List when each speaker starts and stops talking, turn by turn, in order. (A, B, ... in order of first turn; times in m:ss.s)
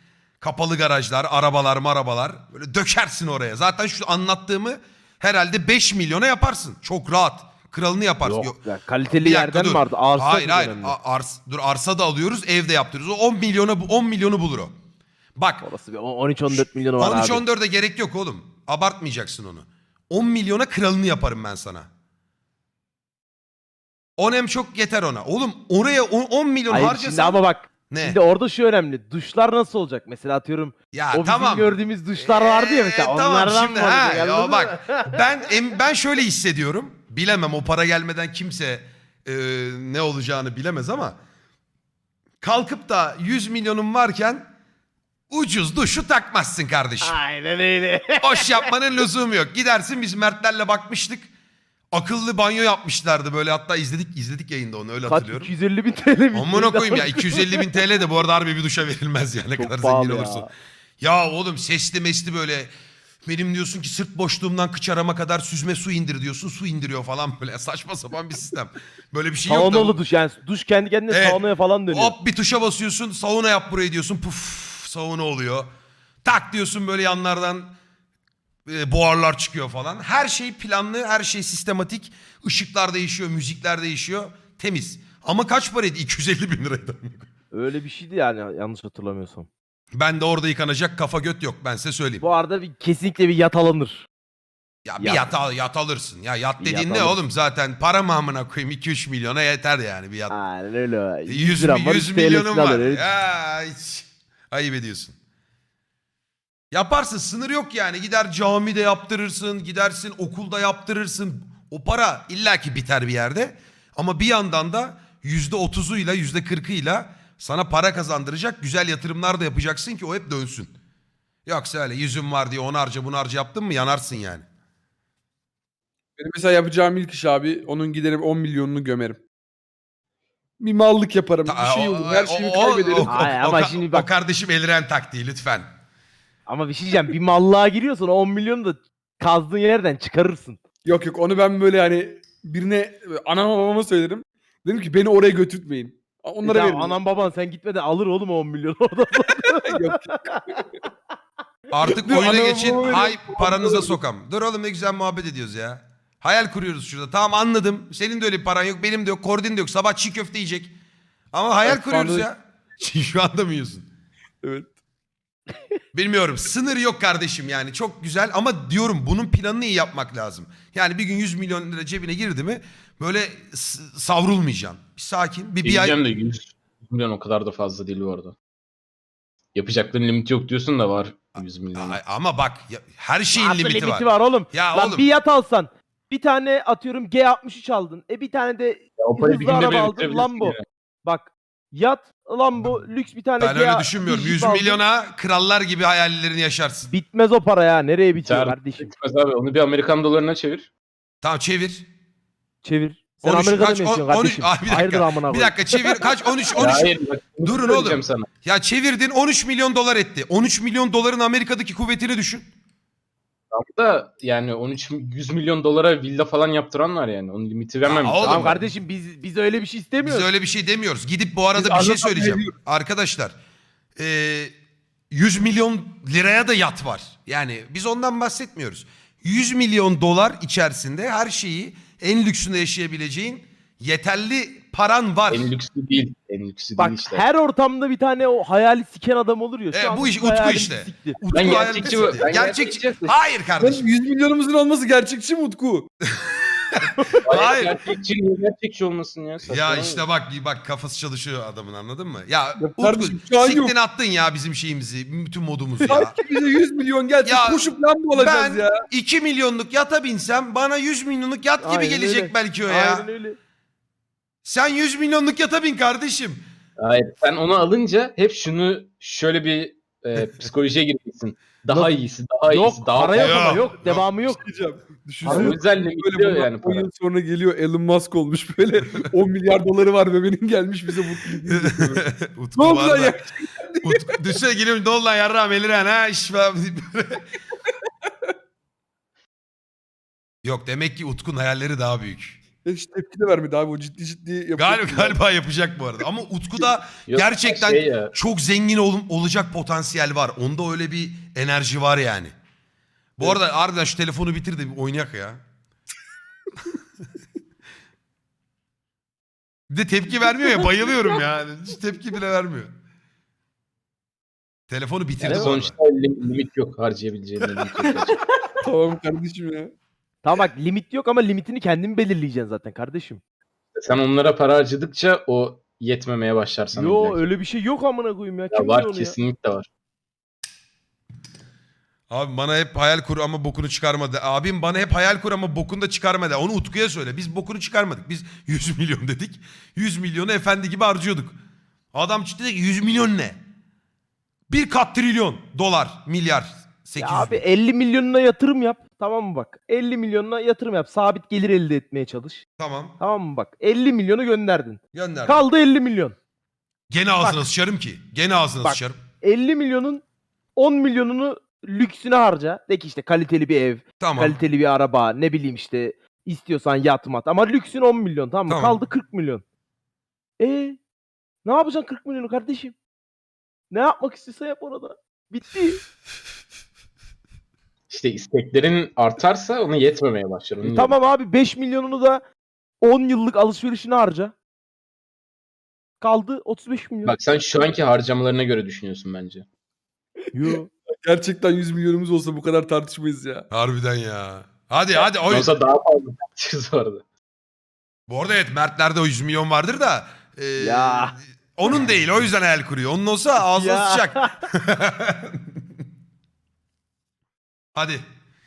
0:00.4-0:08.6 A
0:08.2-0:11.0 B
0:09.2-0:14.7 A
0:15.4-0:15.6 A
0:15.6-0:17.4 B
0:16.5-0:21.9 A
0:24.2-0:28.2 A
0:26.7-0:35.2 B
0:30.9-0:41.2 A
0:42.4-0:44.4 A
0:45.3-0:47.2 A
0:47.0-0:48.7 B
0:48.2-0:51.3 A
0:51.9-0:55.5 A
0:55.0-0:57.8 B
0:56.3-1:00.5 A
0:59.6-1:00.5 B
1:01.0-1:02.7 A
1:03.2-1:10.0 A
1:09.5-1:12.1 B
1:11.1-1:15.7 A
1:16.2-1:17.7 A
1:18.6-1:27.3 A
1:27.5-1:29.5 B
1:29.9-1:32.2 A
1:32.2-1:34.1 B
1:34.8-1:40.3 A
1:35.0-1:35.3 B
1:36.6-1:37.2 B
1:40.3-1:43.1 B
1:41.3-1:45.2 A
1:46.7-2:00.7 A
2:01.4-2:04.4 A
2:06.2-2:09.2 C
2:10.6-2:13.2 C
2:11.4-2:15.7 A
2:13.0-2:14.1 B
2:16.5-2:20.6 B
2:20.8-2:26.9 C
2:26.4-2:30.4 B
2:29.5-2:30.7 C
2:31.7-2:40.7 A
2:31.8-2:34.0 C
2:41.3-2:43.9 A
2:41.6-2:42.3 C
2:44.4-2:44.7 C
2:45.9-2:56.0 A
2:55.6-2:58.3 D
2:59.5-3:02.0 D
3:01.4-3:05.1 A
3:03.3-3:14.8 B
3:09.0-3:10.6 D
3:13.4-3:16.9 A
3:16.9-3:18.9 B
3:18.2-3:20.7 D
3:21.2-3:21.8 A
3:22.6-3:26.1 B
3:23.2-3:32.4 A
3:26.5-3:28.3 D
3:33.5-3:38.6 D
3:37.8-3:38.6 A
3:38.2-3:40.3 B
3:40.0-3:43.3 A
3:41.5-3:42.5 C
3:44.0-3:44.5 A
3:45.1-3:55.5 A
3:55.3-3:57.2 D
3:56.8-4:01.7 B
3:59.7-4:03.8 A
4:01.3-4:03.2 D
4:03.6-4:05.9 C
4:06.1-4:07.7 A
4:07.2-4:10.0 D
4:09.4-4:16.1 A
4:12.6-4:13.7 C
4:15.8-4:18.8 C
4:17.2-4:23.1 A
4:21.6-4:23.4 B
4:24.4-4:26.4 A
4:26.8-4:33.6 D
4:32.4-4:34.4 B
4:33.2-4:34.0 A
4:34.2-4:42.0 C
4:35.2-4:36.8 D
4:35.3-4:35.5 B
4:41.5-4:43.2 A
4:42.6-4:44.2 C
4:43.8-4:47.3 A
4:50.4-4:52.4 A
4:52.6-4:55.2 C
4:54.6-5:02.3 A
4:57.1-4:58.1 D
5:03.2-5:05.4 A
5:09.7-5:12.7 A
5:14.7-5:15.7 A
5:15.2-5:18.2 D
5:15.2-5:15.5 B
5:18.6-5:19.7 C
5:20.2-5:23.2 B
5:23.7-5:27.3 D
5:26.7-5:29.2 B
5:28.5-5:29.7 D
5:32.1-5:41.4 A
5:41.9-5:43.4 A
5:44.5-5:47.4 A
5:47.0-5:52.4 B
5:52.6-5:53.0 A
5:53.0-5:56.2 B
5:54.9-5:55.4 A
5:56.9-5:59.0 A
5:57.2-5:57.4 B
5:58.6-6:00.0 B
6:00.6-6:09.4 B
6:04.0-6:04.4 A
6:08.5-6:08.8 A
6:10.4-6:10.8 B
6:11.4-6:12.7 B
6:13.7-6:15.8 B
6:17.9-6:21.0 D
6:20.6-6:22.2 B
6:22.8-6:24.3 B
6:26.0-6:27.2 B
6:27.0-6:29.4 D
6:30.3-6:30.7 B
6:31.0-6:33.4 C
6:33.5-6:35.5 A
6:35.3-6:37.0 D
6:38.1-6:45.5 A
6:40.6-6:41.2 B
6:43.4-6:44.4 B
6:47.7-6:48.0 A